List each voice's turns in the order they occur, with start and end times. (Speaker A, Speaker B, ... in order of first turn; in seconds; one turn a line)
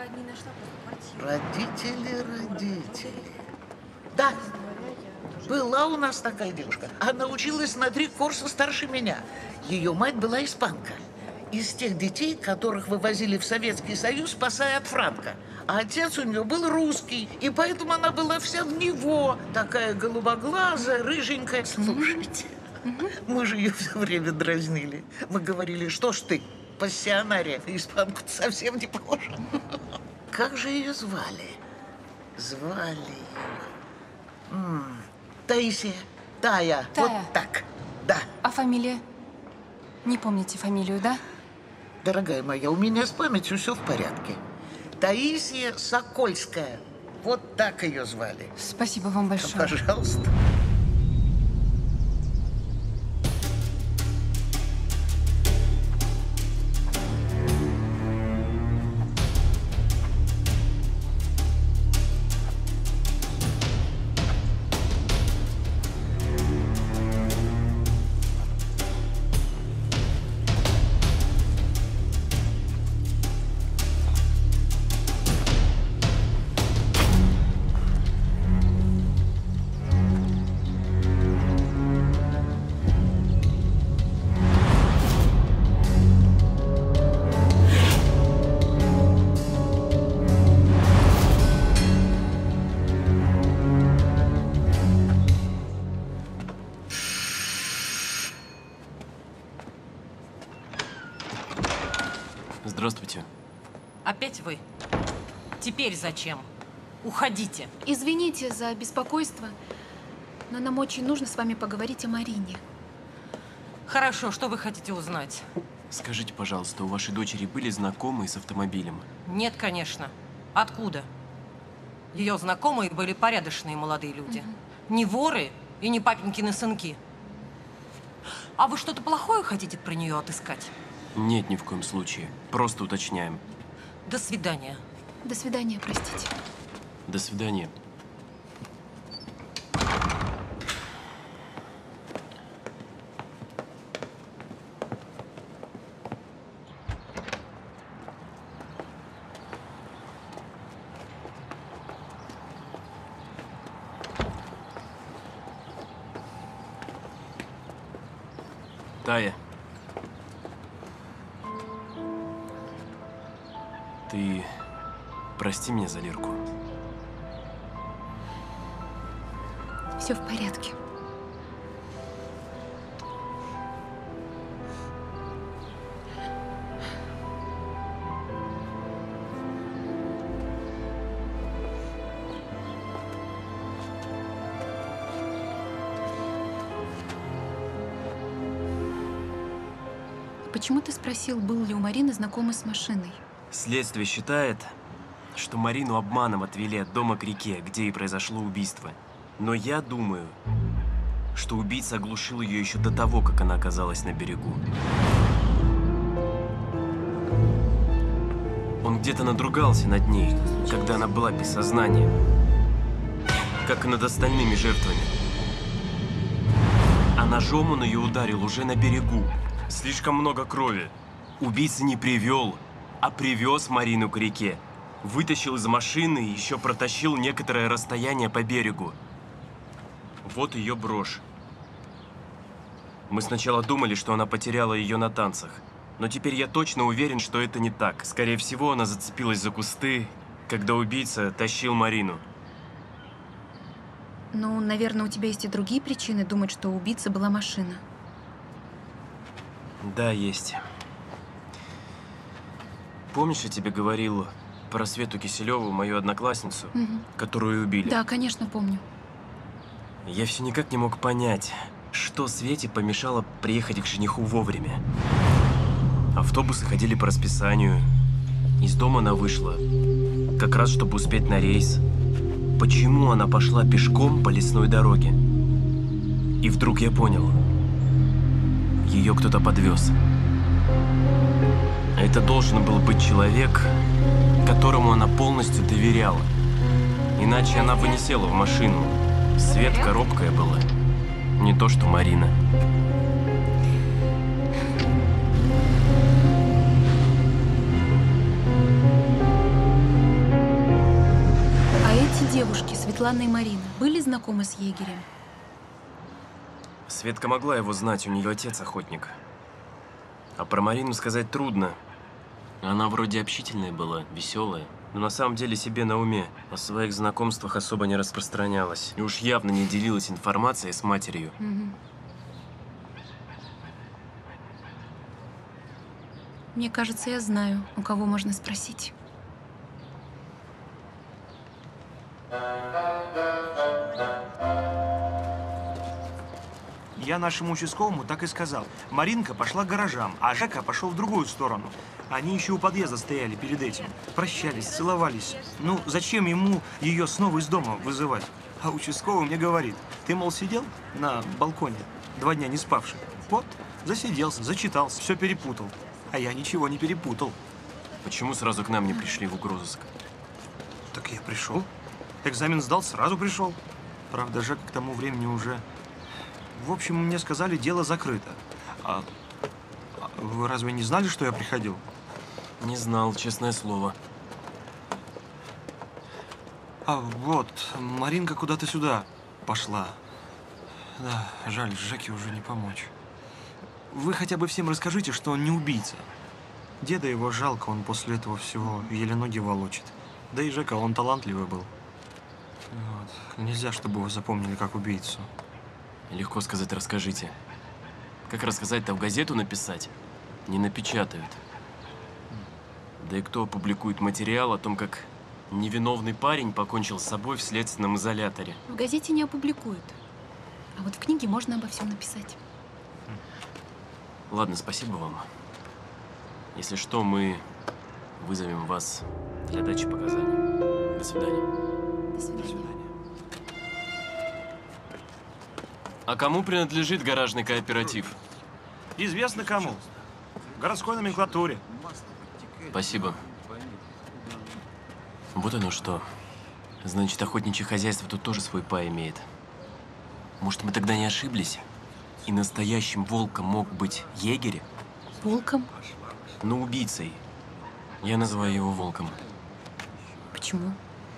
Speaker A: 1.2-3.3
Speaker A: 4.1-4.5
Speaker A: 5.5-11.0
Speaker A: 11.5-29.6
Speaker B: 21.8-22.1
Speaker A: 30.3-31.6
Speaker A: 32.4-33.5
Speaker A: 34.5-38.3
Speaker B: 36.9-37.3
Speaker B: 38.4-39.0
Speaker B: 40.0-41.2
Speaker A: 42.0-44.4
Speaker A: 45.0-48.5
Speaker B: 48.6-49.8
Speaker A: 49.4-50.3
Speaker C: 102.6-103.3
Speaker D: 104.1-104.6
Speaker D: 105.6-106.5
Speaker D: 107.0-107.7
Speaker E: 107.8-109.5
Speaker E: 110.5-112.6
Speaker D: 113.9-115.4
Speaker C: 115.9-119.1
Speaker D: 119.3-121.0
Speaker D: 122.1-127.0
Speaker D: 128.6-130.7
Speaker C: 131.2-133.4
Speaker D: 134.1-134.8
Speaker E: 135.2-136.3
Speaker C: 137.1-137.7
Speaker C: 159.0-159.4
Speaker C: 164.1-164.6
Speaker C: 165.4-166.4
Speaker E: 170.0-170.8
Speaker E: 190.5-193.2
Speaker C: 193.5-194.7
Speaker C: 195.3-200.3
Speaker C: 201.3-204.6
Speaker C: 208.8-212.1
Speaker C: 213.7-215.1
Speaker C: 217.2-229.0
Speaker C: 230.2-231.2
Speaker C: 233.1-242.2
Speaker E: 244.3-247.8
Speaker C: 249.8-250.6
Speaker C: 253.1-258.0
Speaker E: 256.8-257.1
Speaker E: 257.8-258.8
Speaker C: 260.1-264.8
Speaker C: 266.1-267.9
Speaker C: 268.6-269.6
Speaker C: 270.4-271.8
Speaker C: 272.6-275.2
Speaker C: 276.4-277.4
Speaker C: 278.8-279.9
Speaker C: 282.0-283.8
Speaker C: 284.4-286.3
Speaker C: 287.2-290.6
Speaker C: 291.4-292.3
Speaker E: 301.8-305.1
Speaker C: 306.9-309.2
Speaker C: 310.4-311.8
Speaker C: 312.6-321.3
Speaker E: 321.4-321.8
Speaker E: 326.5-328.9
Speaker D: 337.0-357.4
Speaker C: 358.0-359.9
Speaker D: 360.9-361.7
Speaker D: 362.2-363.6
Speaker D: 364.1-365.6
Speaker D: 366.5-369.1
Speaker D: 370.0-371.8
Speaker C: 372.6-374.0
Speaker D: 376.9-380.0
Speaker D: 381.0-382.9
Speaker D: 383.9-386.1
Speaker D: 386.8-391.7
Speaker D: 392.7-395.3
Speaker C: 396.1-397.4
Speaker C: 398.3-399.9
Speaker C: 400.5-401.4
Speaker C: 403.0-408.6
Speaker E: 408.7-410.0
Speaker E: 410.8-412.4
Speaker C: 414.3-415.3
Speaker C: 416.5-417.4
Speaker C: 418.2-420.4
Speaker C: 420.9-421.5
Speaker E: 422.1-422.7
Speaker C: 426.1-428.1
Speaker D: 429.0-429.8
Speaker D: 430.6-431.6
Speaker C: 432.7-433.2
Speaker C: 435.3-436.1
Speaker C: 436.8-439.3
Speaker C: 440.4-441.6
Speaker C: 442.3-444.6
Speaker E: 445.2-445.7
Speaker C: 446.4-447.2
Speaker C: 448.0-449.2
Speaker E: 450.3-450.8